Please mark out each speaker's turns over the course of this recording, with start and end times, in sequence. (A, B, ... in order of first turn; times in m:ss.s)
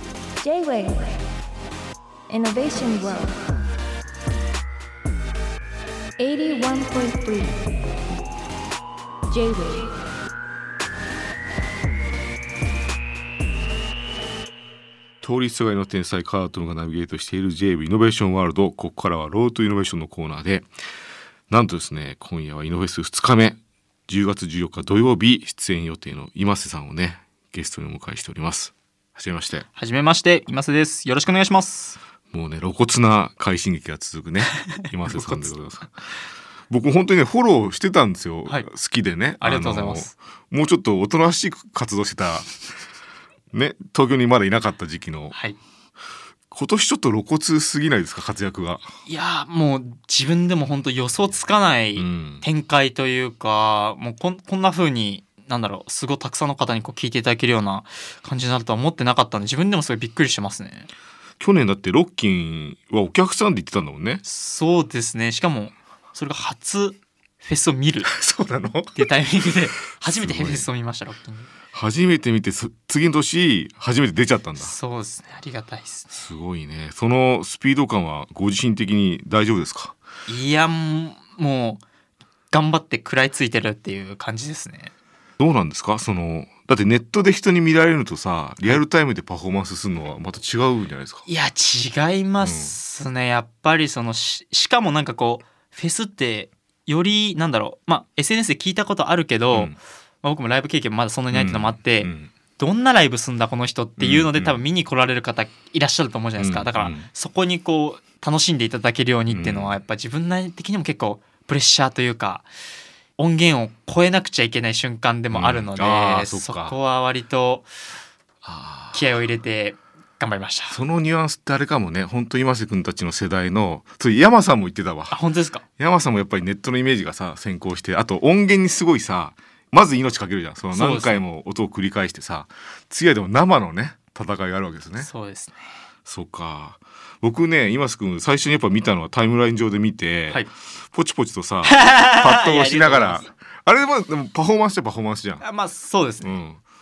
0:00.4-0:01.2 A
0:02.3-0:03.5 A
0:06.2-0:07.6 A
0:09.3-0:09.9 A
0:15.2-0:20.7 B
0:21.5-0:29.7 B
0:29.8-0:32.0 C
0:32.3-0:35.9 B
0:35.0-0:35.5 C
0:36.7-0:42.6 B
0:39.4-0:40.1 C
0:43.5-0:45.4 B
0:45.3-0:45.6 C
0:46.5-0:48.8 B
0:49.1-1:00.9 C
0:52.0-0:52.5 B
1:01.4-1:04.2 B
1:04.2-1:08.1 C
1:08.0-1:09.1 B
1:09.0-1:11.5 C
1:10.2-1:10.7 B
1:11.7-1:14.7 B
1:14.6-1:16.2 C
1:16.1-1:19.9 B
1:20.3-1:21.8 C
1:22.5-1:24.9 C
1:25.4-1:31.3 B
1:31.3-1:52.5 C
1:32.4-1:32.8 B
1:39.5-1:39.8 B
1:41.3-1:42.3 B
1:44.0-1:44.6 B
1:46.4-1:47.1 B
1:49.3-1:49.8 B
1:53.2-1:57.7 C
1:55.3-1:56.8 B
1:58.4-1:59.1 B
1:58.9-2:00.8 C
2:00.7-2:05.2 B
2:05.1-2:05.6 C
2:05.8-2:15.1 B
2:10.7-2:11.2 C
2:15.0-2:15.7 C
2:16.1-2:25.4 B
2:21.6-2:23.3 C
2:25.4-2:26.4 C
2:26.2-2:26.6 B